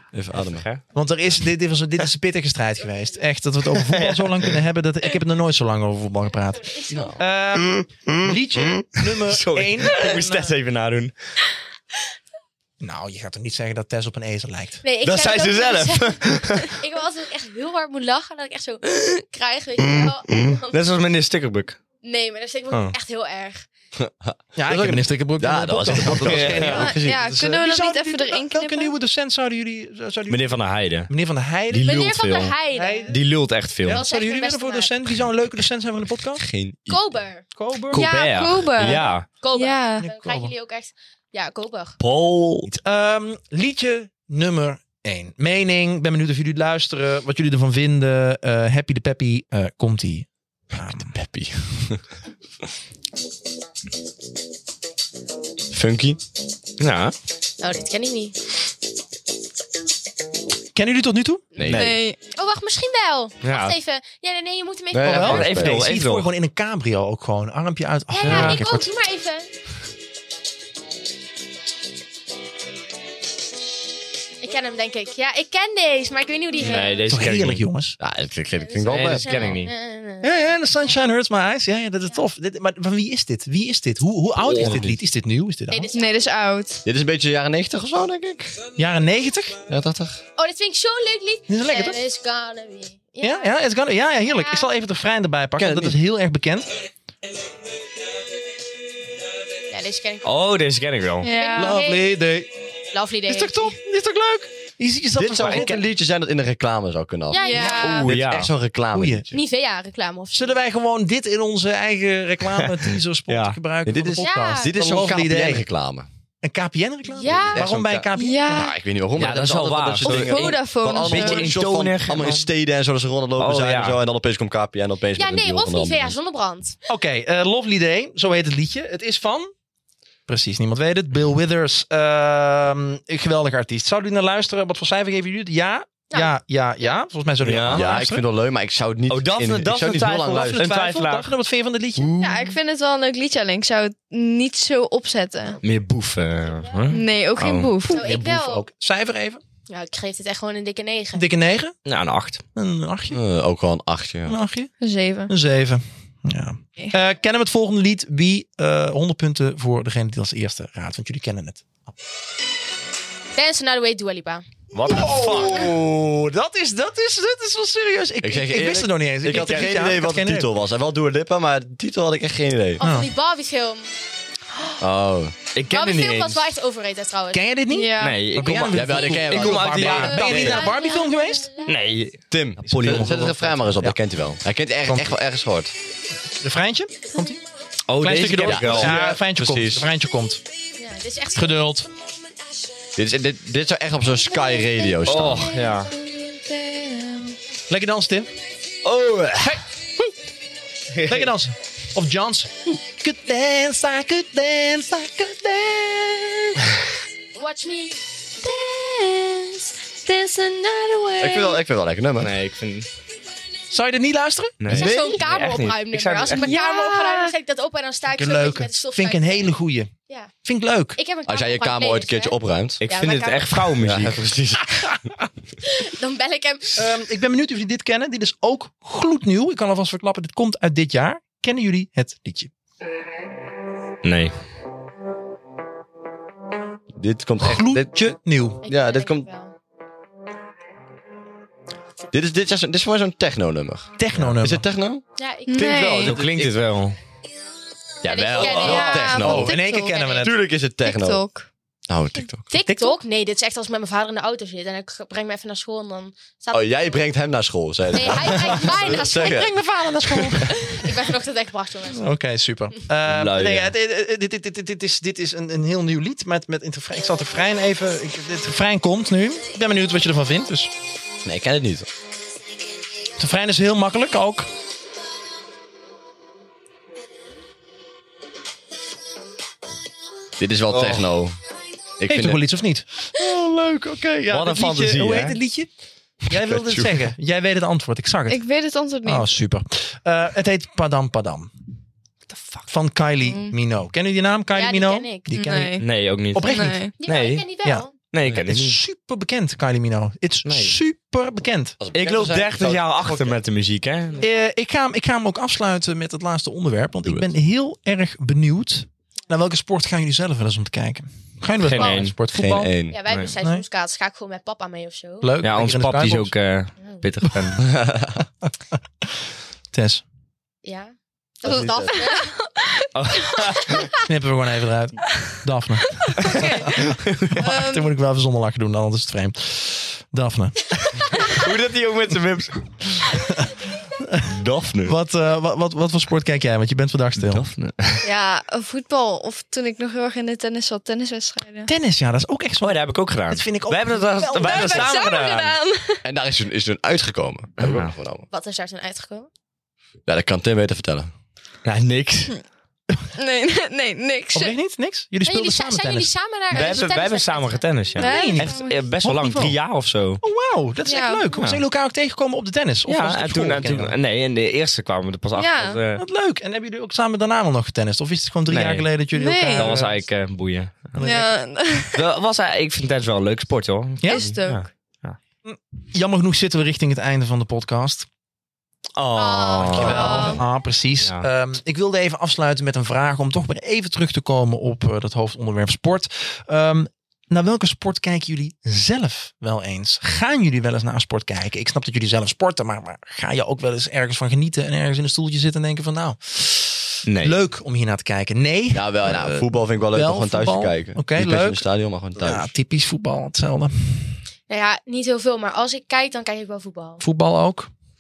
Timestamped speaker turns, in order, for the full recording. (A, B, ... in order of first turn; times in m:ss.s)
0:00.1-0:00.7 A
0:00.4-0:00.8 B
0:00.9-0:10.5 C
0:03.7-0:04.6 B
0:06.7-0:07.2 D
0:06.9-0:07.2 A
0:07.6-0:11.1 B
0:12.8-0:14.8 C
0:14.8-0:20.8 D
0:15.0-0:16.8 B
0:19.8-0:21.8 B
0:22.0-0:23.7 D
0:24.0-0:27.3 A
0:24.6-0:30.5 C
0:26.0-0:26.9 B
0:26.7-0:28.9 E
0:30.3-0:31.1 B
0:31.1-0:32.1 C
0:31.7-0:34.0 B
0:31.8-0:33.2 D
0:32.7-0:33.2 C
0:33.8-0:36.4 C
0:33.9-0:35.0 D
0:36.4-0:37.0 A
0:36.9-0:37.4 D
0:37.6-0:38.0 C
0:37.9-0:39.3 B
0:37.9-0:40.1 E
0:38.8-0:42.0 D
0:40.0-0:40.5 C
0:42.0-0:42.7 B
0:42.7-0:51.2 C
0:51.1-0:52.0 A
0:55.7-0:56.2 A
0:56.8-0:57.1 B
0:57.6-0:58.4 D
1:00.8-1:01.5 C
1:01.6-1:02.0 A
1:01.7-1:02.0 B
1:01.7-1:02.2 E
1:02.3-1:05.5 D
1:03.4-1:03.8 B
1:04.9-1:05.8 A
1:05.0-1:08.9 C
1:05.2-1:06.3 B
1:08.1-1:09.5 D
1:08.2-1:08.6 B
1:14.4-1:17.0 D
1:16.6-1:17.6 B
1:17.1-1:18.0 C
1:18.0-1:19.6 A
1:18.6-1:20.3 D
1:18.9-1:19.7 B
1:20.2-1:25.9 C
1:24.5-1:24.8 B
1:24.5-1:25.0 A
1:25.7-1:26.3 D
1:25.9-1:26.8 E
1:26.8-1:28.6 A
1:28.8-1:29.6 C
1:29.7-1:30.2 A
1:30.4-1:33.5 D
1:31.5-1:32.0 C
1:33.2-1:36.7 C
1:34.3-1:34.7 D
1:35.6-1:36.0 A
1:39.7-1:40.3 D
1:40.2-1:41.3 B
1:41.2-1:41.8 E
1:41.2-1:42.1 D
1:41.6-1:42.5 C
1:42.9-1:43.8 D
1:43.3-1:45.8 C
1:45.2-1:49.4 A
1:45.4-1:45.7 B
1:47.3-1:48.0 D
1:47.4-1:48.1 E
1:47.8-1:48.5 B
1:48.9-1:49.2 C
1:49.3-1:50.6 D
1:50.3-1:55.6 C
1:52.6-1:53.6 B
1:53.8-1:56.1 A
1:54.2-1:54.7 D
1:56.4-1:58.7 C
1:57.1-1:57.7 D
1:57.2-2:06.2 A
1:58.2-1:58.7 E
1:59.2-2:02.5 B
2:00.0-2:01.5 E
2:03.4-2:04.0 B
2:05.2-2:06.8 D
2:06.9-2:09.5 C
2:10.3-2:18.2 C
2:16.1-2:17.0 D
2:17.4-2:17.9 B
2:17.6-2:20.6 A
2:19.1-2:21.3 B
2:20.3-2:22.5 C
2:22.2-2:25.6 E
2:25.6-2:27.7 B
2:26.6-2:27.0 D
2:26.9-2:28.0 E
2:27.9-2:28.6 D
2:27.9-2:29.4 C
2:29.7-2:31.3 D
2:31.2-2:31.8 C
2:31.9-2:32.4 B
2:32.6-2:33.2 C
2:33.1-2:34.4 A
2:34.3-2:34.7 C
2:34.8-2:35.3 E
2:35.3-2:41.9 C
2:43.4-2:44.4 D
2:44.7-2:45.7 B
2:44.8-2:50.5 C
2:45.4-2:46.0 A
2:48.2-2:52.8 A
2:49.2-2:49.9 B
2:52.8-2:53.9 D
2:52.8-2:53.1 C
2:54.8-2:55.4 A
2:55.6-2:56.5 B
2:55.7-2:57.4 D
2:57.3-3:01.5 C
2:57.7-2:58.2 E
2:58.0-3:00.7 B
2:58.7-3:00.1 A
2:59.9-3:01.9 D
3:01.6-3:03.3 B
3:02.3-3:05.7 A
3:02.7-3:04.0 C
3:04.9-3:05.2 C
3:06.4-3:07.4 C
3:07.9-3:09.2 B
3:08.0-3:10.4 C
3:08.4-3:09.9 A
3:10.8-3:11.6 D
3:11.4-3:11.9 C
3:13.0-3:15.5 A
3:14.6-3:17.4 E
3:15.1-3:15.9 B
3:17.7-3:18.3 C
3:18.8-3:19.6 B
3:19.4-3:20.1 C
3:20.9-3:21.3 B
3:21.1-3:26.6 C
3:27.4-3:28.0 D
3:28.4-3:31.6 E
3:31.2-3:32.3 A
3:32.2-3:32.9 B
3:33.7-3:34.6 C
3:34.6-3:36.5 B
3:34.7-3:35.2 A
3:34.7-3:39.6 D
3:36.4-3:37.3 E
3:38.1-3:39.9 C
3:40.4-3:41.0 C
3:41.0-3:43.6 D
3:41.3-3:42.8 A
3:42.8-3:44.2 B
3:43.8-3:45.0 A
3:45.6-3:46.8 D
3:46.8-3:52.5 C
3:54.0-3:54.3 B
3:57.0-3:57.9 A
3:57.4-3:58.6 C
3:58.6-3:59.5 D
3:58.7-3:59.3 A
4:02.1-4:06.6 A
4:04.0-4:04.7 C
4:05.2-4:05.9 D
4:05.5-4:06.2 E
4:06.0-4:07.0 B
4:08.0-4:09.6 A
4:08.1-4:09.3 D
4:08.5-4:10.4 C
4:08.6-4:10.1 E
4:10.1-4:11.2 A
4:10.8-4:11.5 E
4:11.9-4:12.5 A
4:12.5-4:17.0 D
4:12.6-4:13.0 C
4:16.5-4:19.6 A
4:17.9-4:19.5 D
4:18.4-4:20.9 C
4:20.4-4:22.0 D
4:21.9-4:30.7 C
4:23.0-4:23.7 B
4:31.2-4:31.9 A
4:33.2-4:34.5 C
4:40.4-4:41.4 A
4:40.7-4:41.0 B
4:42.0-4:42.4 A
4:42.1-4:45.7 C
4:44.3-4:45.4 B
4:46.2-4:48.4 C
4:46.3-4:47.0 A
4:48.3-4:49.3 E
4:49.0-4:51.5 C
4:52.7-4:55.8 C
4:53.2-4:53.6 E
4:54.5-4:55.6 D
4:55.4-4:55.9 E
4:55.8-4:57.5 B
4:56.4-4:56.8 C
4:56.4-4:56.9 E
4:57.0-4:57.9 D
4:58.0-4:58.8 B
4:58.4-5:01.8 C
5:00.4-5:00.8 B
5:01.8-5:03.4 A
5:01.9-5:04.3 B
5:04.2-5:12.7 C
5:07.0-5:07.4 A
5:11.6-5:12.2 B
5:12.3-5:13.0 A
5:12.9-5:15.3 D
5:15.2-5:16.3 C
5:15.4-5:17.6 B
5:17.2-5:17.7 C
5:17.7-5:18.1 A
5:19.7-5:20.0 C
5:20.6-5:22.4 D
5:21.4-5:22.0 A
5:21.9-5:23.9 E
5:23.0-5:23.9 B
5:24.0-5:31.2 C
5:25.1-5:25.3 E
5:26.0-5:26.8 E
5:26.2-5:27.4 B
5:27.4-5:27.9 E
5:31.2-5:33.1 B
5:34.0-5:34.3 C
5:34.2-5:35.0 B
5:34.8-5:37.4 C
5:37.2-5:38.0 B
5:38.0-5:41.7 E
5:41.7-5:45.0 C
5:42.6-5:45.6 B
5:44.4-5:46.0 E
5:46.0-5:48.3 A
5:47.6-5:47.9 B
5:48.3-5:49.3 D
5:50.1-5:51.1 A
5:51.6-5:52.4 B
5:53.2-5:54.6 E
5:54.3-5:56.1 C
5:55.2-5:58.1 D
5:56.5-6:00.2 B
5:58.0-5:58.8 E
5:58.0-5:59.6 C
6:00.2-6:03.9 C
6:00.9-6:01.3 E
6:01.4-6:01.6 B
6:02.9-6:06.0 B
6:05.4-6:05.8 E
6:06.0-6:10.1 C
6:08.5-6:11.0 B
6:09.1-6:09.7 E
6:11.0-6:11.3 C
6:11.0-6:12.0 E
6:11.9-6:15.2 B
6:14.0-6:14.3 C
6:14.0-6:14.7 E
6:15.4-6:18.1 C
6:19.0-6:20.4 B
6:19.2-6:20.4 D
6:19.7-6:20.4 A
6:19.7-6:41.6 C
6:19.8-6:20.4 E
6:21.0-6:21.3 B
6:37.1-6:37.4 B
6:38.7-6:42.5 A
6:42.2-6:44.2 C
6:44.5-6:47.0 D
6:47.0-6:47.7 C